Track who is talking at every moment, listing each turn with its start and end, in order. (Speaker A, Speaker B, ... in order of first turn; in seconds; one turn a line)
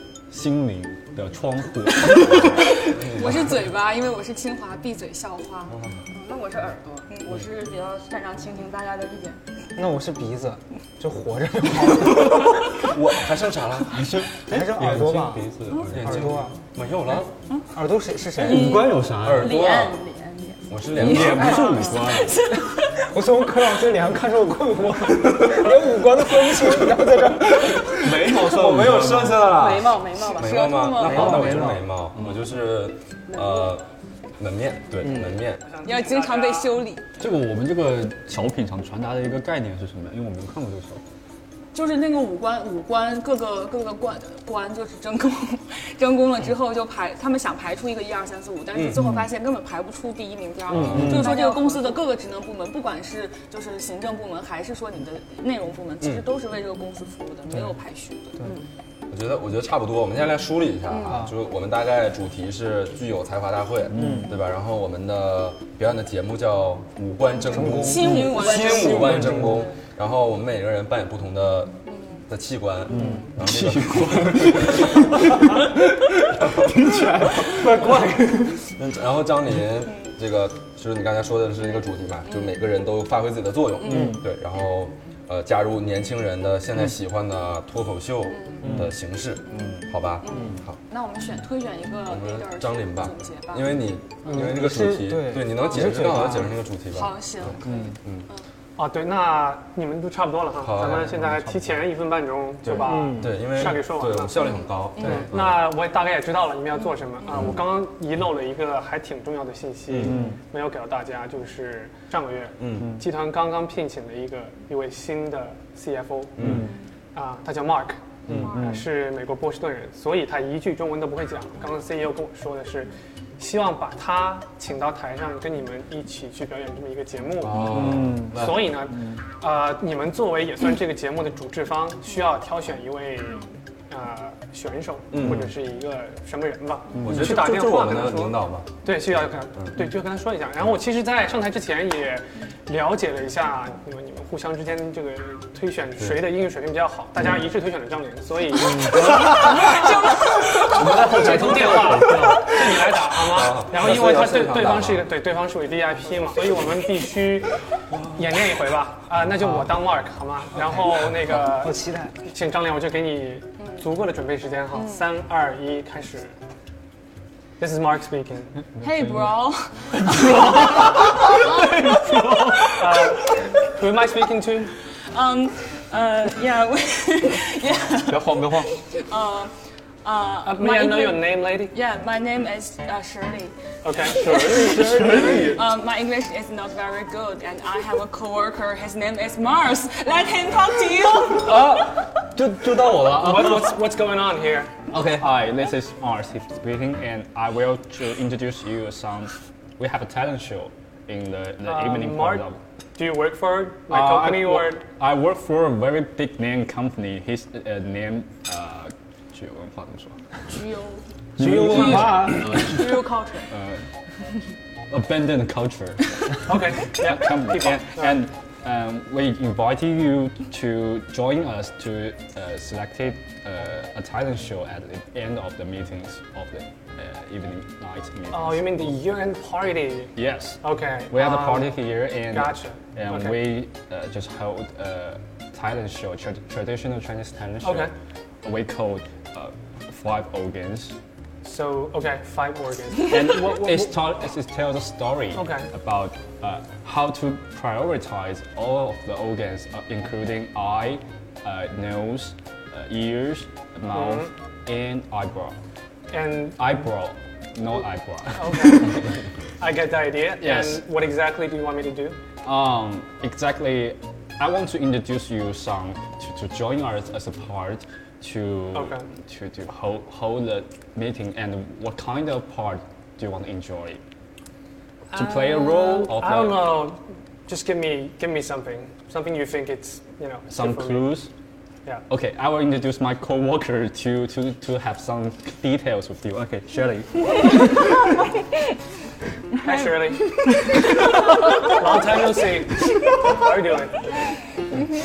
Speaker A: 0.3-2.7
Speaker B: 2.8-5.8
Speaker C: 2.8-3.7
Speaker C: 5.7-6.0
Speaker D: 6.1-9.4
Speaker E: 9.8-12.6
Speaker C: 12.3-14.1
Speaker A: 13.9-15.9
Speaker E: 14.5-16.5
Speaker C: 14.8-17.3
Speaker E: 17.7-18.8
Speaker A: 18.4-19.6
Speaker C: 19.2-20.0
Speaker D: 19.3-20.8
Speaker C: 20.7-21.9
Speaker A: 20.9-22.4
Speaker B: 21.1-22.9
Speaker E: 21.2-21.6
Speaker E: 22.9-28.1
Speaker C: 25.2-25.7
Speaker C: 27.6-33.9
Speaker A: 27.9-29.5
Speaker D: 29.4-30.8
Speaker B: 30.2-31.6
Speaker A: 31.0-31.8
Speaker E: 31.2-31.8
Speaker D: 33.3-33.8
Speaker C: 34.4-35.6
Speaker A: 35.0-35.4
Speaker F: 35.6-36.8
Speaker B: 35.8-37.0
Speaker A: 37.2-41.0
Speaker B: 41.7-58.4
Speaker C: 48.7-49.0
Speaker C: 50.7-51.4
Speaker A: 50.7-51.3
Speaker D: 51.0-52.0
Speaker C: 56.0-56.3
Speaker C: 59.1-71.8
Speaker B: 60.9-61.2
Speaker E: 61.0-61.3
Speaker A: 63.9-64.3
Speaker E: 64.0-64.3
Speaker E: 67.5-69.7
Speaker D: 67.7-69.5
Speaker B: 71.9-72.2
Speaker C: 72.3-75.1
Speaker A: 72.9-75.2
Speaker E: 73.0-73.2
Speaker C: 76.4-76.7
Speaker E: 76.6-78.6
Speaker C: 77.3-77.9
Speaker C: 78.6-90.8
Speaker B: 82.3-82.6
Speaker E: 83.9-84.2
Speaker A: 83.9-84.2
Speaker B: 88.3-88.6
Speaker A: 88.6-88.9
Speaker B: 89.5-93.8
Speaker A: 89.5-89.8
Speaker C: 92.0-98.3
Speaker E: 94.3-96.6
Speaker B: 96.9-98.4
Speaker F: 98.8-104.5
Speaker C: 100.6-101.3
Speaker C: 102.7-105.7
Speaker E: 102.9-103.3
Speaker F: 105.0-116.6
Speaker C: 107.3-107.6
Speaker A: 110.0-110.4
Speaker C: 112.6-113.0
Speaker A: 112.8-113.0
Speaker C: 116.4-116.7
Speaker A: 116.4-116.7
Speaker F: 117.1-149.7
Speaker A: 118.3-118.8
Speaker C: 127.4-128.8
Speaker A: 127.7-128.4
Speaker C: 135.1-135.5
Speaker A: 137.0-137.3
Speaker C: 137.0-138.8
Speaker C: 139.5-139.8
Speaker C: 146.0-146.3
Speaker A: 148.7-149.1
Speaker C: 148.9-149.7
Speaker B: 149.2-150.8
Speaker F: 150.7-157.6
Speaker C: 150.8-155.1
Speaker A: 150.8-152.4
Speaker C: 157.9-158.4
Speaker F: 158.1-166.3
Speaker E: 160.9-162.1
Speaker B: 163.6-163.9
Speaker B: 164.7-165.0
Speaker F: 167.6-168.6
Speaker B: 168.8-173.3
Speaker A: 169.0-169.3
Speaker F: 172.6-174.8
Speaker B: 174.9-179.5
Speaker A: 178.1-178.7
Speaker B: 180.0-191.7
Speaker F: 180.4-181.7
Speaker F: 183.8-185.6
Speaker A: 184.4-185.6
Speaker A: 191.4-193.8
Speaker F: 193.0-194.7
Speaker A: 194.9-202.6
Speaker F: 201.6-204.8
Speaker A: 203.9-210.2
Speaker B: 210.5-211.0
Speaker A: 211.4-213.8
Speaker E: 211.4-212.6
Speaker D: 212.4-213.5
Speaker A: 214.9-228.9
Speaker F: 216.4-218.2
Speaker F: 228.3-233.5
Speaker A: 230.2-237.9
Speaker F: 237.6-237.9
Speaker A: 238.4-240.9
Speaker F: 241.4-244.0
Speaker A: 243.1-255.6
Speaker F: 245.3-245.7
Speaker F: 253.9-254.3
Speaker F: 256.1-256.6
Speaker A: 256.6-259.0
Speaker F: 258.3-262.2
Speaker A: 260.4-260.8
Speaker A: 262.4-274.0
Speaker F: 268.7-269.1
Speaker F: 275.1-281.2
Speaker A: 275.1-276.8
Speaker A: 280.5-281.3
Speaker A: 282.1-287.7
Speaker F: 289.6-290.5
Speaker B: 289.6-290.1
Speaker F: 291.6-294.1